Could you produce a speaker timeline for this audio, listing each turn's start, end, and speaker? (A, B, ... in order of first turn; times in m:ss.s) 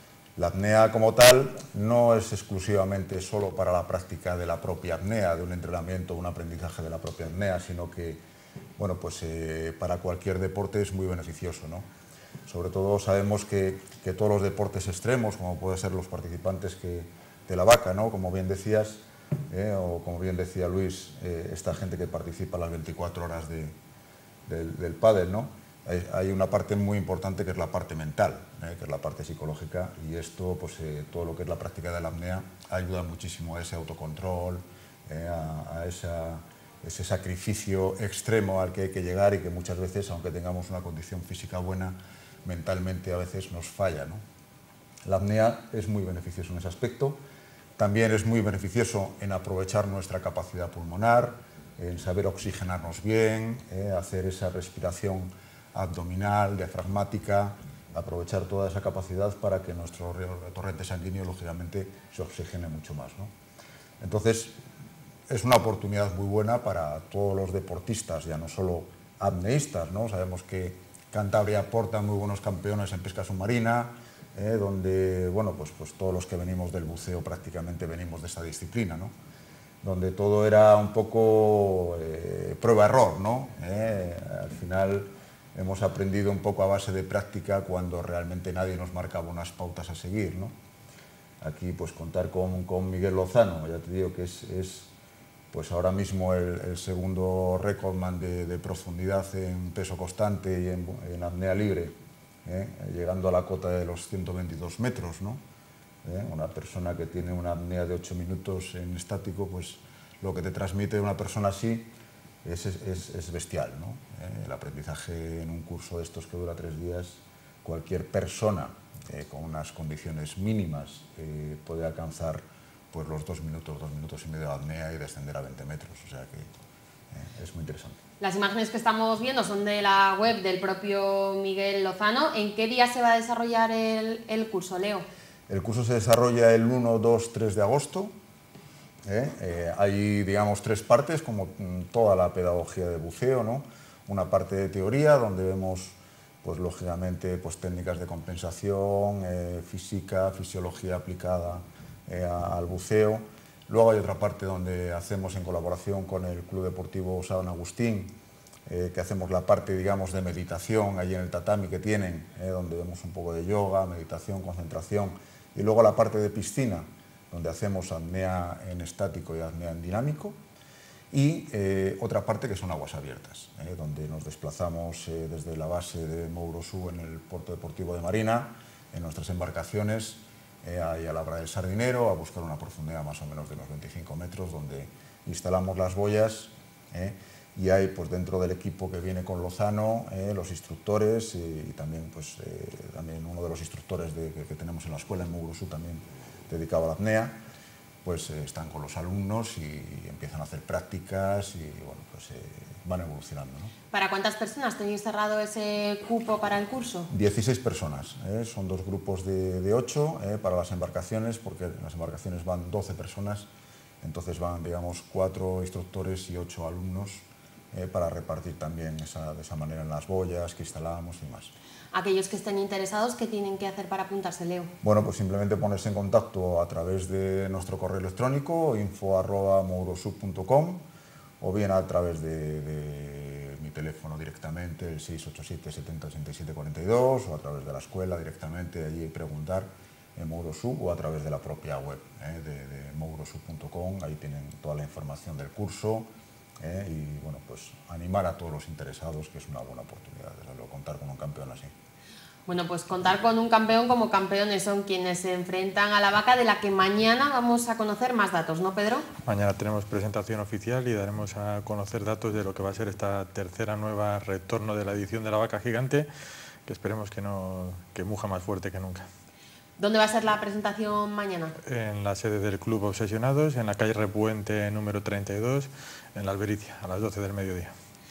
0:00.4-0:08.2 A
0:08.8-0:11.8 A
0:12.4-0:23.7 A
0:24.5-0:44.2 A
0:45.0-0:47.2 A
0:47.8-1:03.3 A
1:04.0-1:04.5 A
1:05.3-1:19.1 A
1:19.8-1:30.5 A
1:31.4-1:34.9 A
1:35.5-1:45.4 A
1:46.0-1:51.9 A
1:52.4-2:06.5 A
2:07.1-2:08.0 A
2:08.2-2:15.0 B
2:15.5-2:18.1 A
2:19.1-2:38.1 A
2:38.7-2:50.4 A
2:51.1-3:17.4 A
3:18.0-3:23.7 A
3:23.9-3:27.1 B
3:27.1-3:33.4 A
3:34.0-3:41.5 A
3:41.9-3:44.7 B
3:44.8-3:50.8 A
3:51.4-4:06.1 A
4:06.6-4:11.7 A
4:12.5-4:19.0 B
4:19.2-4:26.1 C
4:26.6-4:29.1 C
4:29.8-4:31.5 B
4:31.6-4:37.7 C